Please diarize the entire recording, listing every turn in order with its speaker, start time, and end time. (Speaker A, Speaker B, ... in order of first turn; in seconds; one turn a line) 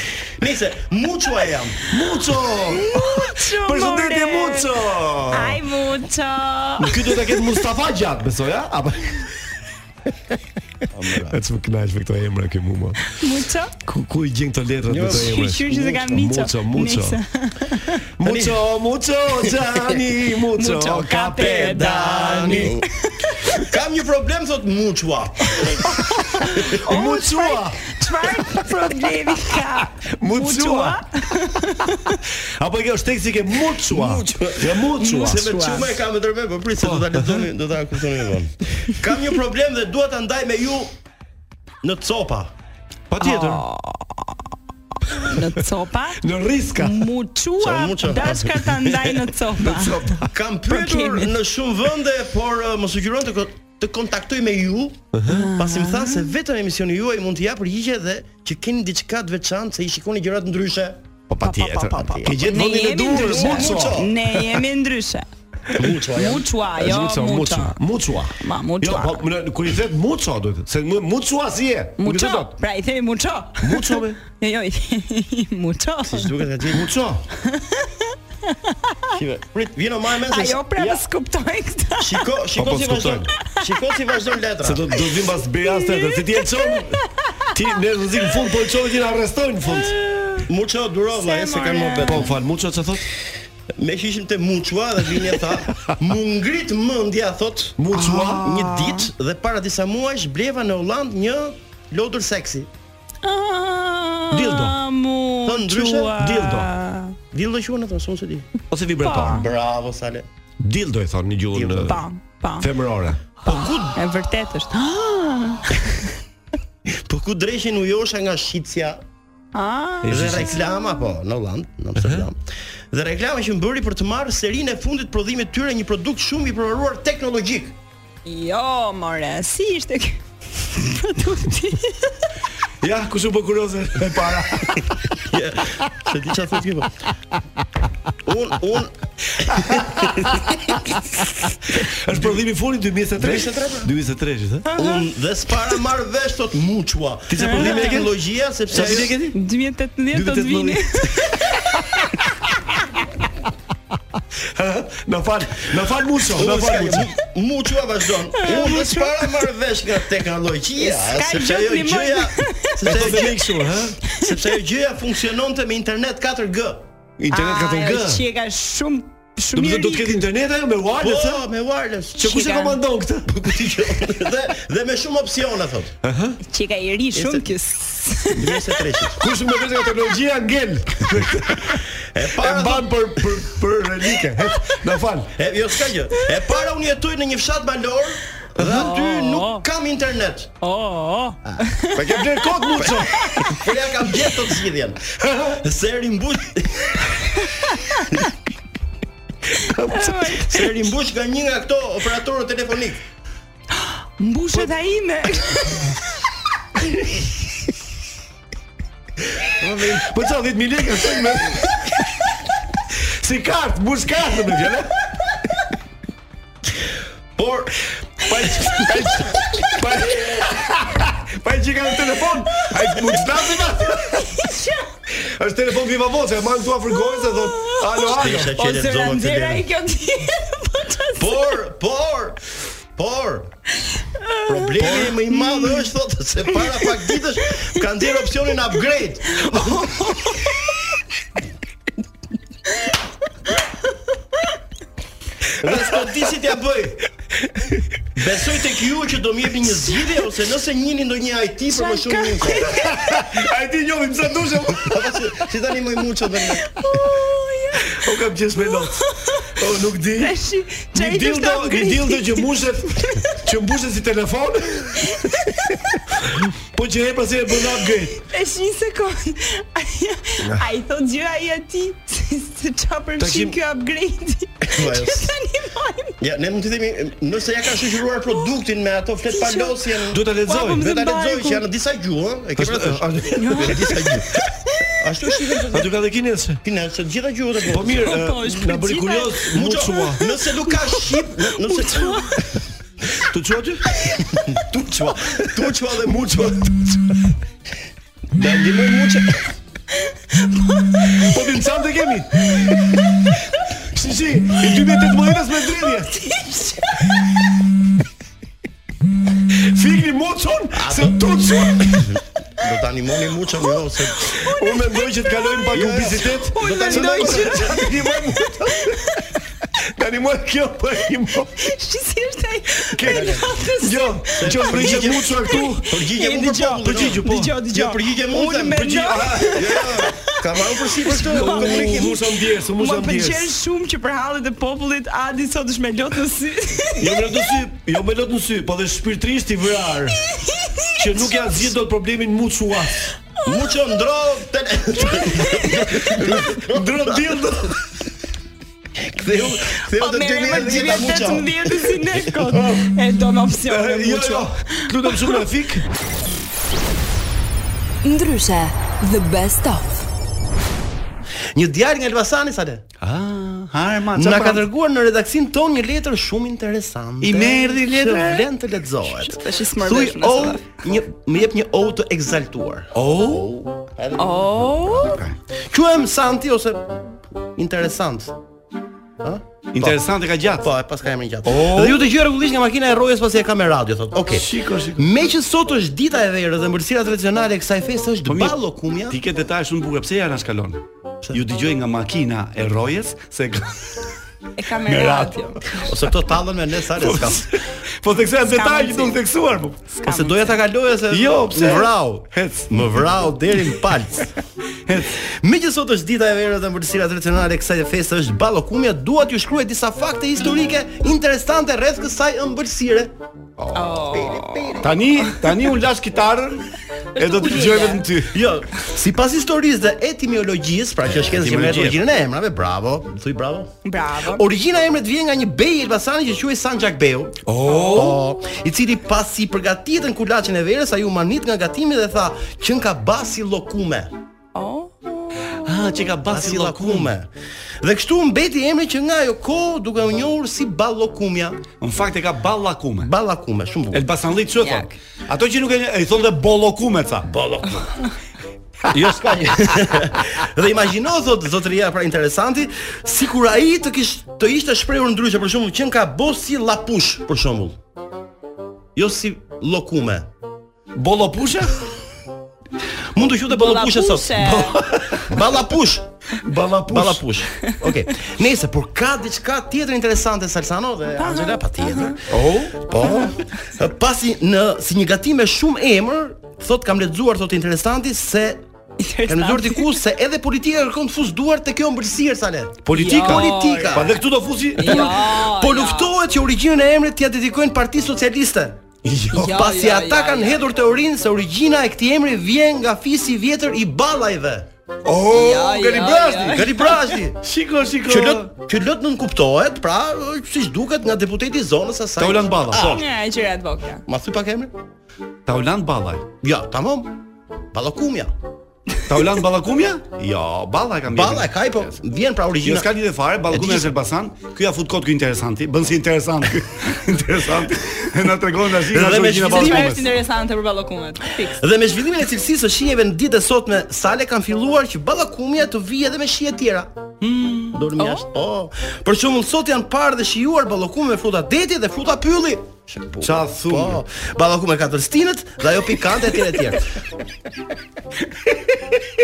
Speaker A: 0.2-1.8
Speaker B: 1.9-5.6
Speaker C: 2.7-4.7
Speaker C: 5.3-7.4
Speaker B: 6.8-9.3
Speaker A: 10.9-11.4
Speaker B: 11.3-13.0
Speaker C: 13.2-13.7
Speaker B: 13.9-17.2
Speaker A: 14.9-15.4
Speaker C: 15.1-18.0
Speaker B: 18.2-21.8
Speaker A: 18.2-18.6
Speaker A: 19.4-19.8
Speaker C: 20.6-23.6
Speaker A: 21.4-22.8
Speaker A: 23.6-25.7
Speaker C: 25.5-32.2
Speaker B: 26.9-27.8
Speaker B: 30.2-31.0
Speaker B: 32.6-35.4
Speaker A: 33.9-41.0
Speaker C: 35.0-36.0
Speaker B: 36.8-37.5
Speaker A: 41.8-42.5
Speaker B: 43.1-43.6
Speaker C: 43.2-44.4
Speaker D: 43.3-43.5
Speaker C: 45.1-46.2
Speaker B: 46.2-46.8
Speaker C: 46.8-50.0
Speaker A: 47.6-48.9
Speaker B: 49.6-50.3
Speaker A: 50.2-61.0
Speaker C: 50.7-51.4
Speaker B: 55.1-55.5
Speaker C: 55.3-56.3
Speaker B: 61.4-64.1
Speaker D: 61.4-63.0
Speaker A: 61.6-62.4
Speaker C: 62.3-65.3
Speaker A: 63.1-64.1
Speaker A: 65.8-66.5
Speaker C: 66.1-67.8
Speaker B: 66.8-72.5
Speaker C: 68.4-69.3
Speaker C: 72.0-76.3
Speaker B: 73.6-74.2
Speaker A: 76.0-77.2
Speaker C: 77.5-79.1
Speaker A: 79.1-81.0
Speaker C: 80.3-82.2
Speaker A: 82.0-84.9
Speaker B: 82.6-83.2
Speaker B: 84.6-87.0
Speaker C: 85.6-87.4
Speaker B: 87.5-89.9
Speaker C: 89.7-90.5
Speaker A: 90.5-92.3
Speaker C: 91.1-92.3
Speaker B: 92.1-93.0
Speaker A: 93.8-97.8
Speaker B: 97.8-98.5
Speaker C: 98.0-99.1
Speaker A: 98.4-102.7
Speaker C: 103.2-107.2
Speaker B: 104.3-104.7
Speaker A: 105.5-106.2
Speaker B: 106.2-106.5
Speaker A: 107.3-108.5
Speaker B: 108.7-109.4
Speaker D: 108.8-109.1
Speaker C: 109.0-109.5
Speaker A: 109.3-110.3
Speaker B: 110.6-112.0
Speaker A: 111.5-112.0
Speaker C: 111.8-112.7
Speaker B: 112.6-113.2
Speaker A: 113.4-114.0
Speaker C: 113.4-116.1
Speaker A: 116.9-119.0
Speaker C: 119.5-120.5
Speaker B: 120.0-120.5
Speaker A: 120.1-127.8
Speaker C: 128.3-132.1
Speaker B: 132.8-134.8
Speaker A: 135.2-136.9
Speaker A: 138.2-138.9
Speaker A: 139.5-140.5
Speaker B: 142.0-144.7
Speaker A: 143.2-143.9
Speaker C: 144.7-145.1
Speaker A: 144.8-149.2
Speaker B: 147.3-148.1
Speaker C: 147.4-148.0
Speaker B: 148.7-149.3
Speaker C: 149.3-151.5
Speaker B: 150.1-150.8
Speaker B: 154.6-157.1
Speaker A: 156.3-163.4
Speaker C: 158.3-159.4
Speaker C: 160.8-163.2
Speaker B: 162.8-164.0
Speaker A: 164.1-166.9
Speaker B: 167.2-168.2
Speaker C: 167.3-170.2
Speaker B: 169.6-171.4
Speaker A: 171.0-172.3
Speaker C: 172.2-172.8
Speaker B: 172.2-173.3
Speaker A: 173.3-176.0
Speaker B: 176.0-176.4
Speaker C: 176.4-178.8
Speaker A: 177.1-177.5
Speaker A: 178.3-179.2
Speaker B: 179.2-181.8
Speaker A: 182.1-183.2
Speaker B: 182.4-185.3
Speaker A: 185.3-190.5
Speaker C: 188.7-189.7
Speaker C: 190.6-192.0
Speaker B: 191.9-193.1
Speaker A: 192.8-197.0
Speaker C: 193.1-193.5
Speaker B: 195.2-195.6
Speaker C: 197.6-198.2
Speaker B: 199.6-200.2
Speaker C: 199.9-200.7
Speaker A: 200.4-203.0
Speaker C: 203.8-205.9
Speaker A: 209.6-210.1
Speaker B: 210.1-211.7
Speaker B: 213.2-214.9
Speaker A: 217.4-218.7
Speaker B: 218.4-220.5
Speaker B: 221.4-224.2
Speaker C: 224.2-224.8
Speaker B: 225.4-228.5
Speaker C: 227.0-231.6
Speaker A: 228.1-229.7
Speaker A: 231.2-232.4
Speaker A: 233.0-233.5
Speaker C: 234.2-235.9
Speaker A: 234.5-239.9
Speaker C: 236.8-237.2
Speaker C: 239.4-240.5
Speaker A: 245.6-247.0
Speaker A: 248.2-252.7
Speaker C: 251.7-253.1
Speaker B: 253.2-254.9
Speaker A: 254.8-256.7
Speaker C: 256.6-258.1
Speaker B: 258.0-259.0
Speaker C: 258.6-259.5
Speaker B: 259.6-260.3
Speaker C: 260.2-263.4
Speaker B: 260.9-265.0
Speaker C: 265.0-265.8
Speaker B: 266.7-268.1
Speaker C: 268.2-276.1
Speaker B: 273.2-273.6
Speaker A: 274.6-275.3
Speaker A: 276.2-284.3
Speaker C: 279.3-279.8
Speaker B: 280.1-280.8
Speaker C: 280.4-281.6
Speaker B: 282.6-283.9
Speaker C: 283.3-283.8
Speaker A: 285.0-285.9
Speaker B: 285.7-286.6
Speaker A: 286.6-288.1
Speaker B: 287.7-290.2
Speaker C: 288.1-292.4
Speaker A: 289.5-292.3
Speaker B: 293.3-293.8
Speaker A: 294.4-296.6
Speaker B: 296.1-296.7
Speaker A: 298.4-299.3
Speaker C: 300.4-301.3
Speaker B: 301.2-302.3
Speaker B: 303.9-306.1
Speaker C: 306.1-307.2
Speaker B: 309.7-312.0
Speaker A: 310.7-311.2
Speaker A: 312.1-314.3
Speaker C: 314.3-315.3
Speaker B: 314.6-318.9
Speaker A: 315.7-317.6
Speaker C: 316.5-318.5
Speaker B: 320.0-321.6
Speaker C: 321.6-324.5
Speaker B: 323.0-325.9
Speaker A: 323.0-323.5
Speaker A: 324.4-328.9
Speaker C: 325.5-332.2
Speaker B: 326.8-327.6
Speaker B: 328.8-329.8
Speaker A: 329.5-332.2
Speaker B: 331.2-333.5
Speaker C: 332.8-337.4
Speaker B: 337.0-340.1
Speaker C: 340.3-341.3
Speaker B: 341.0-343.0
Speaker C: 343.4-343.7
Speaker A: 343.4-347.4
Speaker C: 345.1-345.8
Speaker B: 346.1-347.5
Speaker A: 349.0-352.7
Speaker C: 349.7-354.9
Speaker B: 353.7-355.8
Speaker D: 354.1-354.3
Speaker E: 358.0-360.0
Speaker A: 361.5-362.8
Speaker D: 363.0-364.6
Speaker A: 364.1-374.9
Speaker D: 367.2-368.4
Speaker C: 369.1-370.7
Speaker B: 373.1-373.4
Speaker C: 374.2-375.2
Speaker A: 375.7-377.0
Speaker A: 377.6-378.4
Speaker A: 379.2-380.0
Speaker D: 379.7-380.6
Speaker A: 380.6-389.2
Speaker B: 384.4-385.0
Speaker D: 388.3-388.6
Speaker D: 389.1-390.8
Speaker D: 391.3-393.7
Speaker C: 394.6-395.8
Speaker D: 394.9-395.3
Speaker A: 395.9-397.5
Speaker B: 398.0-399.7
Speaker D: 398.5-399.6
Speaker C: 398.5-399.2
Speaker C: 399.9-400.6
Speaker A: 400.1-404.3
Speaker B: 401.1-402.6
Speaker A: 405.2-413.1
Speaker C: 413.7-415.4
Speaker A: 414.1-414.9
Speaker D: 414.8-416.6
Speaker C: 417.1-418.0
Speaker B: 417.2-418.1
Speaker D: 417.3-418.2
Speaker A: 418.3-423.7
Speaker D: 421.2-422.0
Speaker C: 423.9-424.5
Speaker A: 424.3-434.1
Speaker B: 427.5-428.2
Speaker C: 434.6-435.7
Speaker D: 435.7-437.1
Speaker A: 436.3-437.3
Speaker A: 437.8-441.6
Speaker D: 441.8-443.1
Speaker A: 443.0-444.1
Speaker D: 443.9-447.3
Speaker C: 444.6-444.9
Speaker A: 447.3-448.0
Speaker A: 448.9-457.8
Speaker A: 459.0-460.3
Speaker B: 461.0-461.8
Speaker A: 463.1-464.6
Speaker C: 463.5-464.8
Speaker B: 464.8-465.3
Speaker A: 465.3-466.1
Speaker B: 466.4-467.2
Speaker A: 466.9-472.3
Speaker C: 471.2-472.1
Speaker B: 472.5-473.0
Speaker A: 472.9-478.6
Speaker C: 473.0-473.3
Speaker C: 479.0-480.0
Speaker A: 479.3-484.1
Speaker B: 482.9-483.4
Speaker D: 482.9-483.3
Speaker C: 482.9-484.0
Speaker B: 483.9-485.1
Speaker D: 484.0-484.8
Speaker C: 484.8-486.1
Speaker A: 484.8-488.8
Speaker D: 489.1-489.5
Speaker C: 489.3-490.6
Speaker A: 489.3-494.7
Speaker D: 495.1-496.2
Speaker B: 495.2-496.4
Speaker C: 495.3-497.1
Speaker A: 496.4-497.4
Speaker B: 497.4-498.5
Speaker A: 498.1-503.0
Speaker D: 502.3-502.9
Speaker B: 502.3-503.0
Speaker C: 502.9-504.0
Speaker A: 504.1-504.7
Speaker D: 505.5-506.3
Speaker A: 506.4-507.2
Speaker A: 507.7-508.3
Speaker D: 509.1-511.5
Speaker A: 511.1-512.9
Speaker D: 512.6-520.0
Speaker A: 513.5-513.9
Speaker A: 518.9-520.0
Speaker B: 519.3-519.8
Speaker C: 519.5-521.6
Speaker A: 521.4-526.9
Speaker A: 527.7-536.9
Speaker C: 528.0-528.2
Speaker B: 533.3-533.6
Speaker D: 533.4-533.9